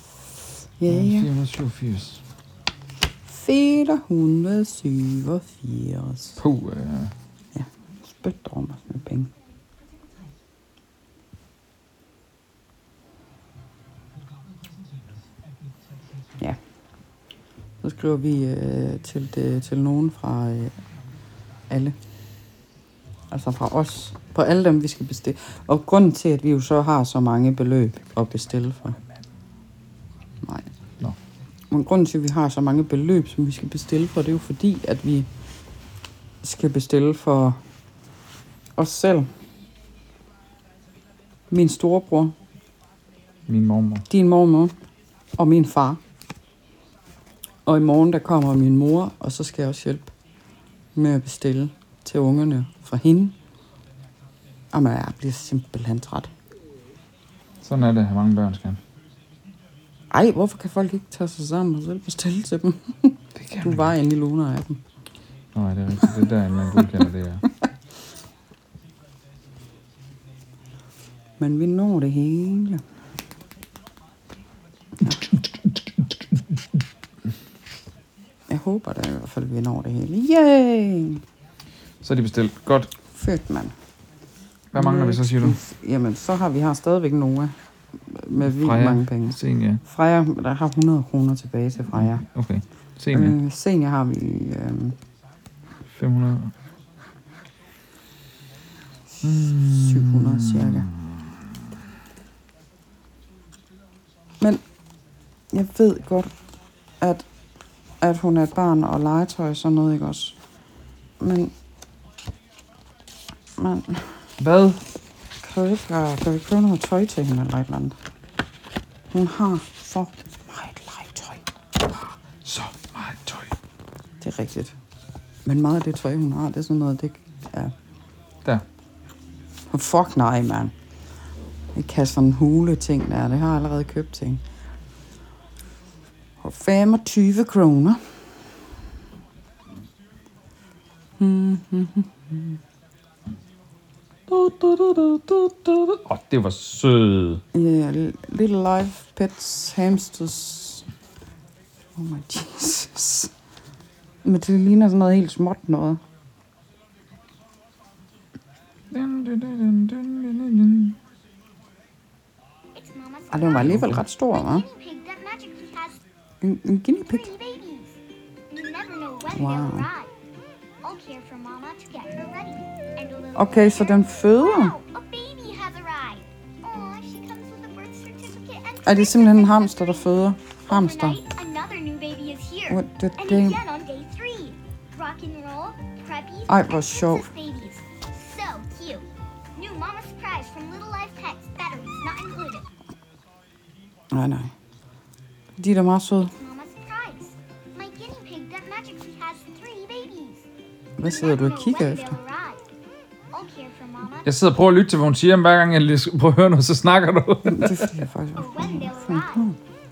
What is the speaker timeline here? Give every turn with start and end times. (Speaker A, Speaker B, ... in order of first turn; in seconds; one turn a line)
Speaker A: 0.8-1.3
Speaker B: 0.8-2.2
Speaker A: 3.2-6.4
Speaker B: 6.4-7.1
Speaker A: 7.5-9.3
Speaker A: 17.8-20.7
Speaker A: 21.7-21.9
Speaker A: 23.3-29.0
Speaker A: 31.7-35.3
Speaker A: 36.4-37.6
Speaker A: 38.8-39.3
Speaker A: 41.5-42.3
Speaker B: 43.5-44.0
Speaker A: 44.1-44.7
Speaker A: 45.4-46.0
Speaker A: 47.6-50.1
Speaker A: 50.9-53.3
Speaker A: 54.7-56.3
Speaker B: 57.6-58.8
Speaker A: 60.1-64.8
Speaker B: 63.3-63.9
Speaker B: 65.5-67.4
Speaker A: 71.4-72.8
Speaker A: 78.5-81.2
Speaker B: 82.0-82.9
Speaker A: 83.1-83.7
Speaker B: 84.7-85.6
Speaker A: 84.7-87.5
Speaker A: 88.1-92.2
Speaker B: 88.4-89.8
Speaker B: 91.9-93.4
Speaker A: 93.1-95.0
Speaker B: 95.9-96.5
Speaker B: 99.2-101.6
Speaker A: 99.5-100.9
Speaker A: 105.5-106.3
Speaker A: 107.0-107.2
Speaker A: 108.0-110.4
Speaker A: 111.2-111.5
Speaker A: 113.6-114.2
Speaker B: 114.4-114.8
Speaker A: 115.4-118.0
Speaker A: 119.1-121.4
Speaker B: 122.4-123.5
Speaker A: 124.2-124.7
Speaker A: 125.5-127.7
Speaker A: 129.7-130.7
Speaker A: 131.7-134.4
Speaker A: 136.4-138.4
Speaker A: 141.2-142.6
Speaker A: 144.3-145.9
Speaker B: 146.0-147.4
Speaker A: 147.5-150.8
Speaker A: 151.9-153.3
Speaker A: 154.2-156.0
Speaker B: 158.9-161.0
Speaker C: 162.7-166.0
Speaker A: 163.3-164.6
Speaker B: 163.6-164.0
Speaker A: 166.4-167.3
Speaker C: 167.1-168.0
Speaker C: 168.5-170.1
Speaker A: 169.3-169.8
Speaker C: 170.8-192.7
Speaker A: 173.3-174.7
Speaker A: 178.8-181.2
Speaker A: 182.7-183.6
Speaker A: 186.5-187.2
Speaker A: 194.1-194.5
Speaker A: 195.6-196.3
Speaker C: 196.3-200.4
Speaker A: 201.0-202.1
Speaker C: 201.0-202.6
Speaker C: 203.3-204.3
Speaker B: 204.2-208.0
Speaker A: 207.4-209.6
Speaker C: 208.3-209.4